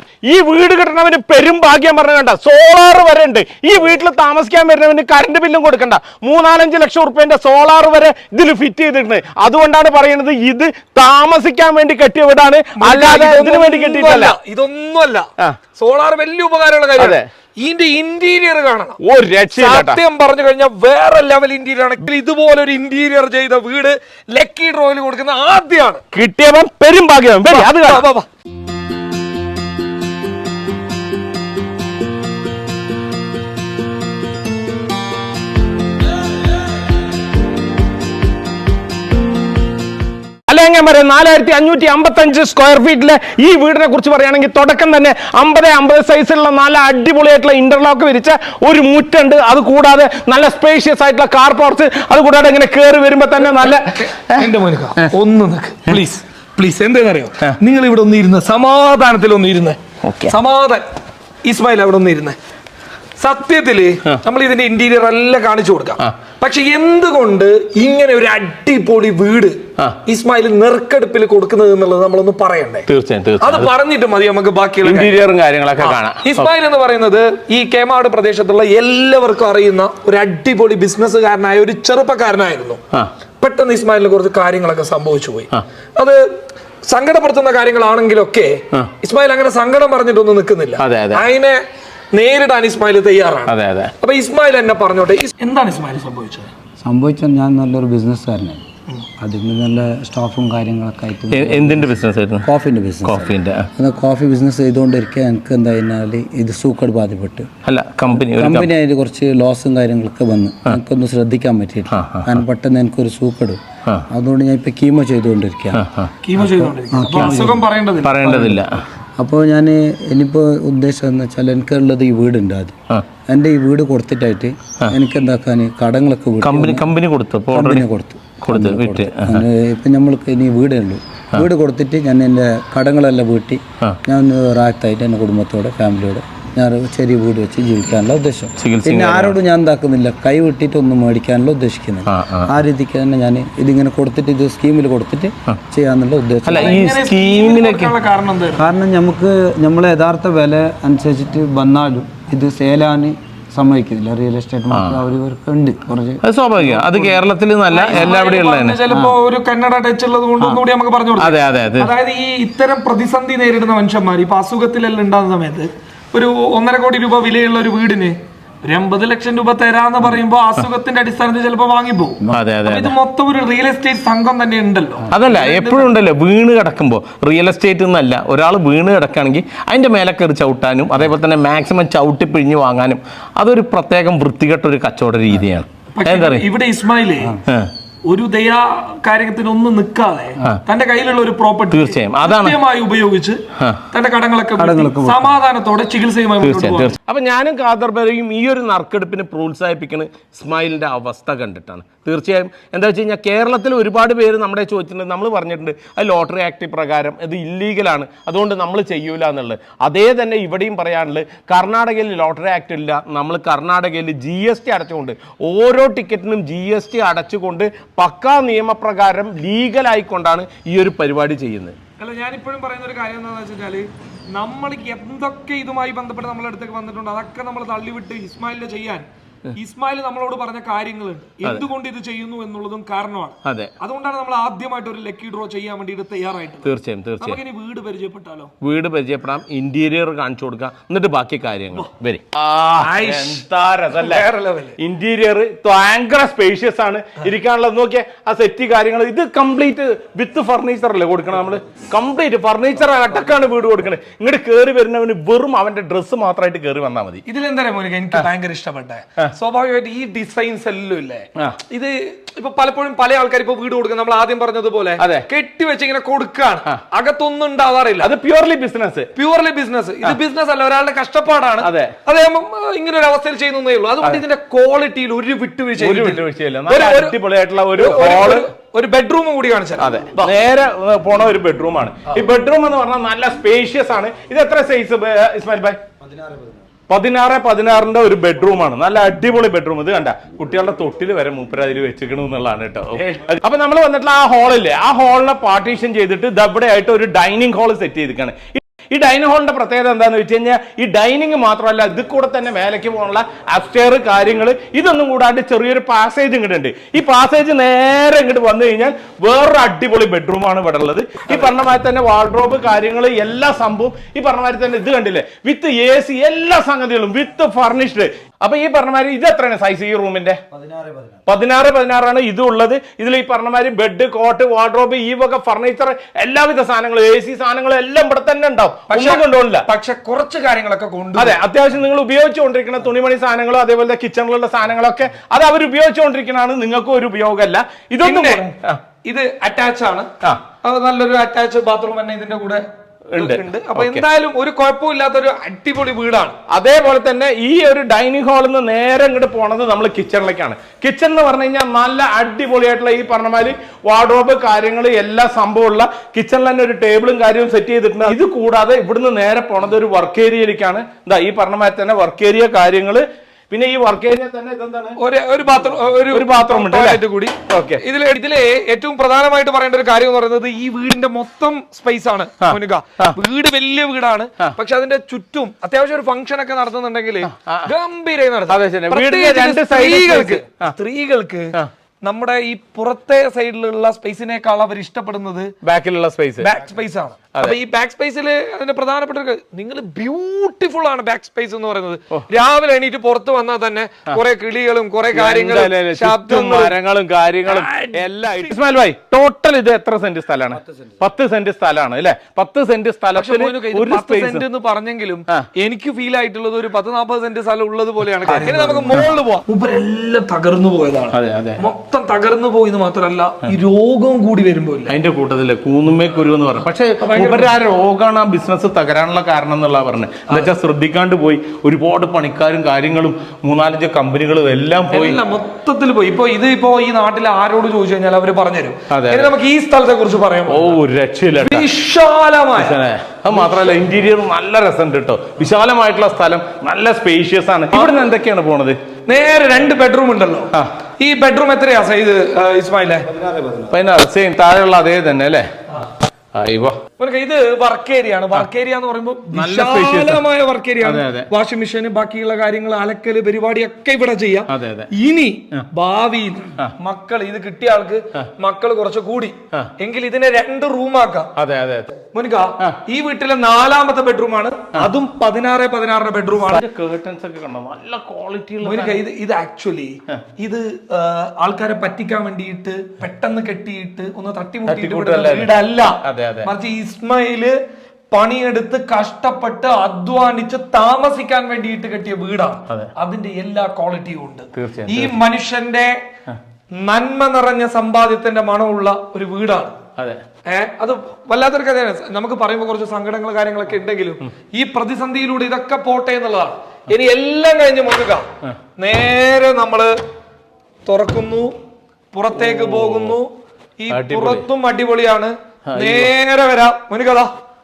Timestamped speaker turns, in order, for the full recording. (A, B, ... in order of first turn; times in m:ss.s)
0:00.3-0:14.4 A
0:12.8-0:19.0 B
0:17.0-0:17.3 A
0:19.0-0:20.0 A
0:19.5-0:26.0 B
0:26.1-0:28.0 A
0:27.4-0:28.3 B
0:40.5-0:54.5 A
0:53.6-1:00.8 B
1:00.0-1:00.4 A
1:01.4-1:02.4 B
1:03.2-1:12.9 B
1:12.9-1:13.7 A
1:13.4-1:15.1 B
1:14.8-1:16.5 A
1:15.8-1:22.8 B
1:23.4-1:26.2 B
1:26.9-1:31.6 B
1:30.8-1:31.2 A
1:32.1-1:36.5 B
1:33.5-1:33.9 A
1:36.8-1:38.6 C
1:39.2-1:47.5 C
1:41.3-1:42.5 A
1:43.0-1:43.7 A
1:47.6-1:48.7 A
1:48.1-1:55.8 C
1:51.9-1:52.4 A
1:55.7-1:56.1 A
1:56.2-1:58.2 B
1:56.4-1:57.6 C
1:57.1-1:57.5 A
1:58.0-1:58.8 A
1:58.2-1:58.6 C
1:59.2-2:02.8 C
2:03.3-2:06.9 C
2:06.4-2:07.9 A
2:07.5-2:26.8 C
2:08.4-2:09.4 A
2:18.6-2:19.4 A
2:22.0-2:22.6 A
2:26.4-2:27.9 A
2:26.5-2:28.6 B
2:28.6-2:37.2 C
2:34.7-2:35.0 A
2:36.2-2:38.8 A
2:37.7-2:55.9 B
2:38.9-2:39.2 C
2:41.2-2:41.9 A
2:52.3-2:52.9 A
2:55.1-3:06.4 A
3:05.9-3:07.4 B
3:08.1-3:16.9 B
3:11.7-3:12.6 A
3:13.6-3:13.8 A
3:14.6-3:15.3 C
3:16.4-3:41.7 A
3:42.0-3:58.5 B
3:53.4-3:53.7 A
3:56.6-3:57.4 A
3:58.6-4:04.3 A
4:02.8-4:04.8 B
4:04.8-4:17.2 A
4:17.3-4:28.1 B
4:25.0-4:25.3 A
4:28.0-4:29.1 A
4:29.2-4:37.2 B
4:31.6-4:32.0 A
4:35.8-4:38.5 A
4:37.8-4:40.3 B
4:39.8-4:45.8 A
4:46.0-4:46.5 C
4:46.9-5:20.4 A
5:20.5-5:21.2 C
5:21.2-5:29.6 A
5:28.9-5:31.4 B
5:31.2-5:38.8 A
5:38.0-5:38.4 B
5:39.0-5:40.1 B
5:40.6-5:46.4 B
5:43.1-5:44.0 A
5:46.5-6:05.0 A
6:05.0-6:25.5 B
6:05.6-6:07.8 A
6:12.4-6:13.2 A
6:17.2-6:17.7 A
6:18.5-6:20.7 A
6:25.6-6:26.5 A
6:26.4-6:36.8 B
6:35.1-6:44.4 A
6:37.4-6:38.6 B
6:43.1-6:54.9 B
6:48.2-6:49.0 A
6:48.6-6:48.9 C
6:51.1-6:51.7 A
6:54.9-7:05.2 A
6:57.0-6:57.6 B
7:04.9-7:10.8 B
7:08.9-7:09.3 A
7:10.5-7:11.7 A
7:11.4-7:13.8 B
7:12.6-7:18.8 A
7:17.7-7:18.1 B
7:19.1-7:23.1 B
7:23.1-7:23.7 C
7:23.7-7:25.5 A
7:26.3-7:26.8 A
7:27.0-7:41.3 B
7:29.3-7:30.2 A
7:30.8-7:31.3 A
7:34.5-7:34.9 A
7:41.4-7:41.9 A
7:42.1-7:46.6 B
7:46.4-7:49.0 A
7:48.6-7:57.5 B
7:54.7-7:56.5 A
7:58.1-8:06.0 B
8:04.5-8:05.2 A
8:06.8-8:09.8 B
8:10.5-8:18.3 B
8:18.8-8:19.9 B
8:20.8-8:21.5 B
8:22.1-8:27.3 B
8:22.3-8:23.2 A
8:23.9-8:24.4 A
8:25.7-8:26.1 A